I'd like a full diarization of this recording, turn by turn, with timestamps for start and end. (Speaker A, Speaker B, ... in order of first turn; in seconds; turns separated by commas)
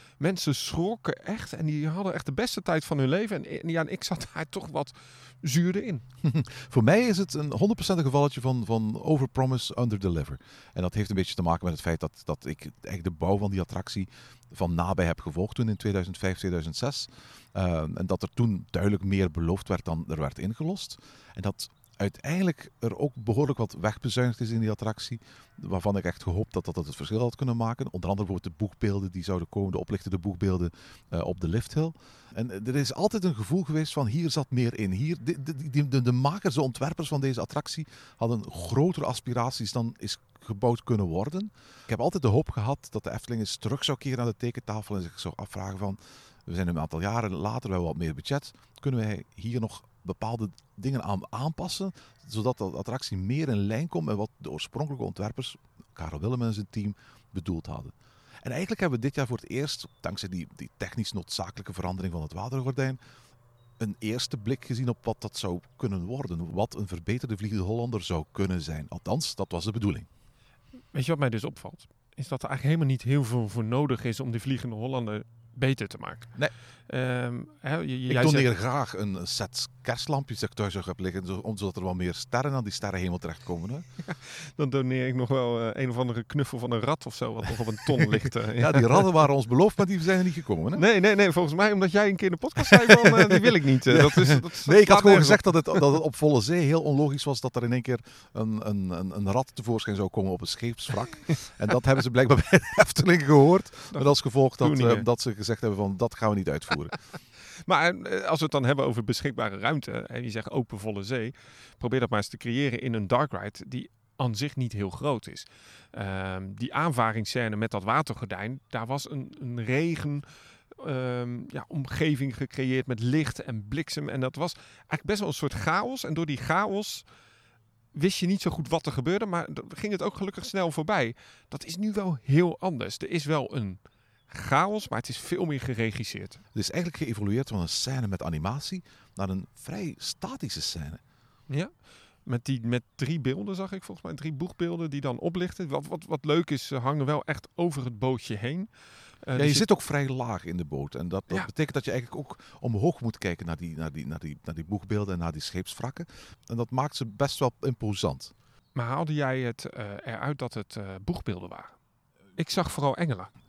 Speaker A: 0.2-6.0, Speaker B: 6.2-63.0, Speaker B: 63.8-70.1, Speaker A: 70.9-78.5, Speaker B: 78.1-83.9, Speaker A: 84.0-89.1, Speaker B: 88.0-90.8, Speaker A: 90.8-95.8, Speaker B: 92.6-106.9, Speaker A: 103.9-105.1, Speaker A: 107.6-127.1, Speaker A: 127.9-136.4, Speaker B: 136.5-141.0, Speaker A: 141.5-148.7, Speaker A: 149.2-149.7, Speaker B: 149.3-158.3, Speaker A: 158.8-161.7, Speaker A: 162.4-163.3